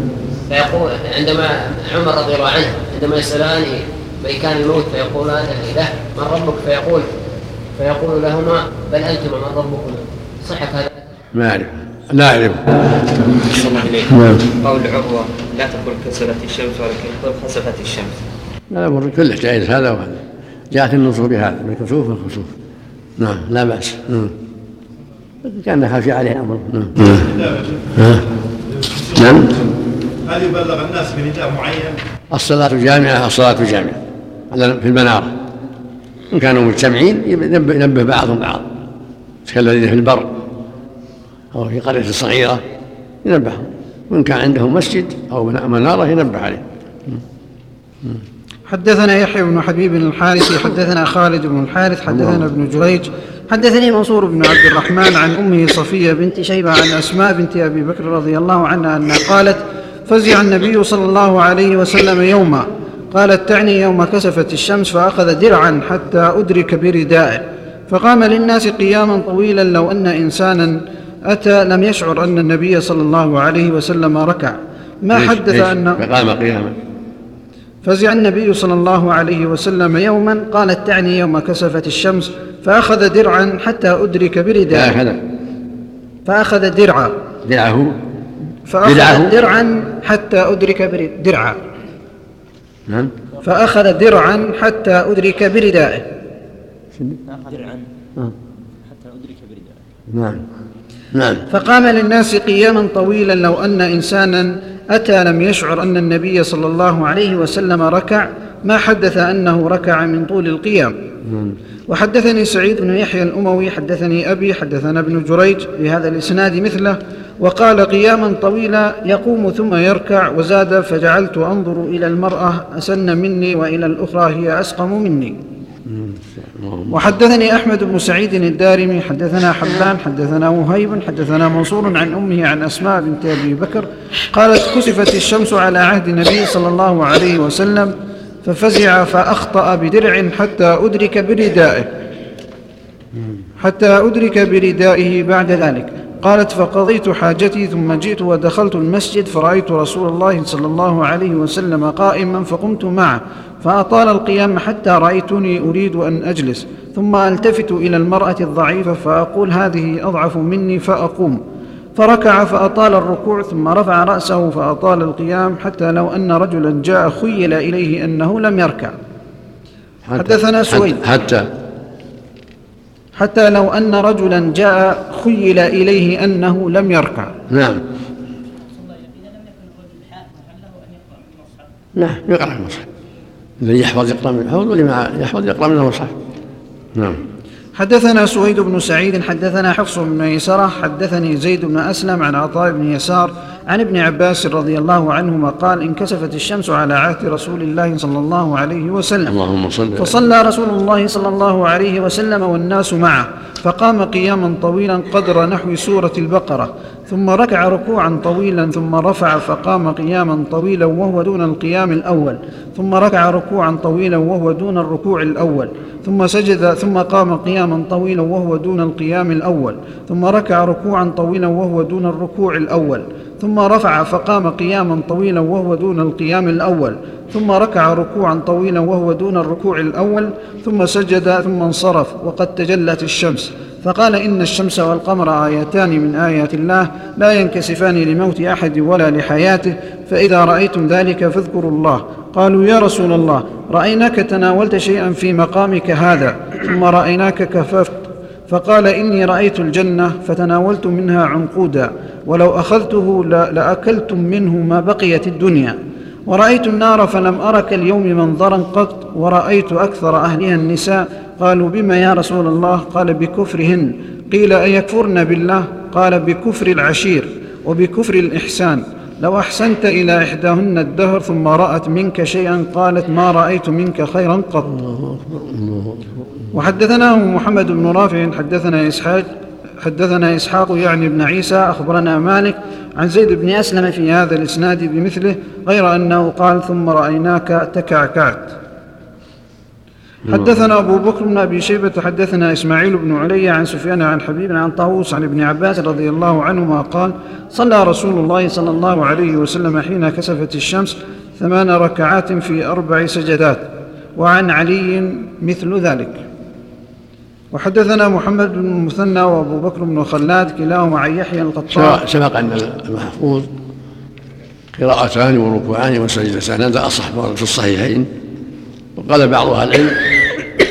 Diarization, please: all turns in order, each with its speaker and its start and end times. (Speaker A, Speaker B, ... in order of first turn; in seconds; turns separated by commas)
Speaker A: 0.5-7.1, Speaker A: 7.8-10.9, Speaker B: 11.3-12.7, Speaker C: 13.5-14.1, Speaker B: 14.1-14.4, Speaker C: 14.6-18.2, Speaker B: 18.7-22.5, Speaker B: 23.2-24.4, Speaker B: 25.4-27.3, Speaker D: 27.0-29.6, Speaker B: 27.9-28.2, Speaker B: 29.2-29.5, Speaker D: 30.2-32.0, Speaker B: 32.3-35.3, Speaker B: 36.3-38.7, Speaker B: 39.5-40.3, Speaker B: 41.5-42.6, Speaker B: 43.2-47.2, Speaker E: 48.7-76.0, Speaker B: 52.1-52.5, Speaker B: 75.1-76.8, Speaker E: 77.8-84.9, Speaker B: 84.7-85.2, Speaker E: 86.3-87.1, Speaker B: 87.4-88.0, Speaker E: 88.7-91.6, Speaker B: 88.8-89.4, Speaker B: 92.9-93.1, Speaker E: 93.4-96.0, Speaker B: 100.1-100.4, Speaker B: 101.1-101.4, Speaker E: 101.5-110.9, Speaker B: 111.2-111.6, Speaker E: 111.9-125.4, Speaker B: 125.9-127.0, Speaker E: 126.9-137.9, Speaker E: 138.4-141.9, Speaker E: 143.6-161.4, Speaker E: 162.0-168.9, Speaker B: 170.1-171.5, Speaker E: 170.2-171.0, Speaker E: 173.2-177.3, Speaker B: 177.5-177.8, Speaker B: 182.0-182.8, Speaker B: 183.6-186.1, Speaker B: 186.9-187.2, Speaker E: 187.8-199.3, Speaker B: 199.3-200.2, Speaker E: 200.0-274.7, Speaker B: 274.7-276.5, Speaker E: 276.5-279.3, Speaker E: 279.8-288.5, Speaker E: 290.3-303.7, Speaker E: 304.2-306.2, Speaker E: 307.5-312.0, Speaker B: 311.7-313.5, Speaker B: 314.7-318.1, Speaker B: 319.0-320.1